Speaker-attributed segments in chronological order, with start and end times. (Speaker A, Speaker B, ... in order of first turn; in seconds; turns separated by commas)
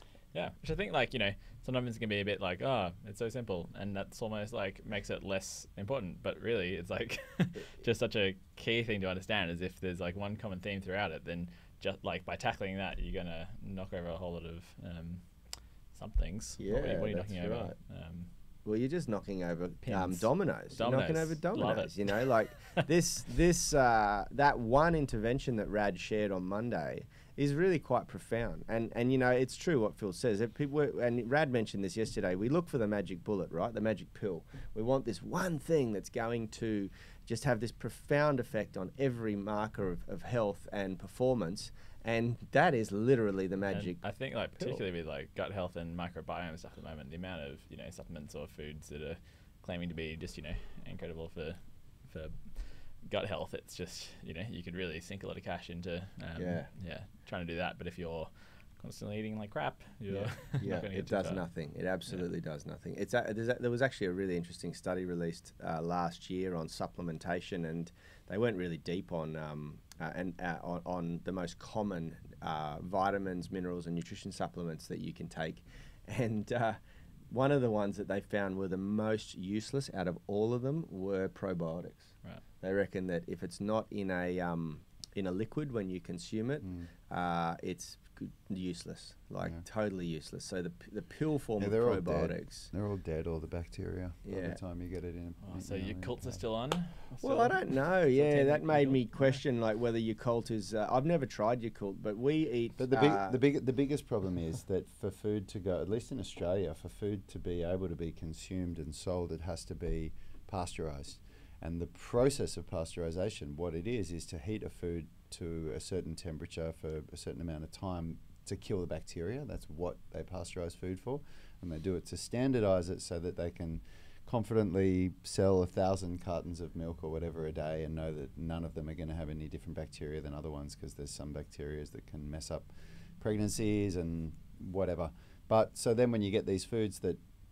Speaker A: 0.3-15.3, Speaker A: 15.9-18.3, Speaker B: 16.6-17.8, Speaker B: 18.6-44.0, Speaker A: 19.8-22.3, Speaker A: 43.7-61.5, Speaker B: 56.3-56.7, Speaker B: 60.1-76.8, Speaker B: 77.3-92.7, Speaker C: 86.6-86.9, Speaker C: 91.6-96.4, Speaker B: 94.2-94.6, Speaker A: 95.4-99.4, Speaker B: 97.2-103.4, Speaker C: 102.8-137.2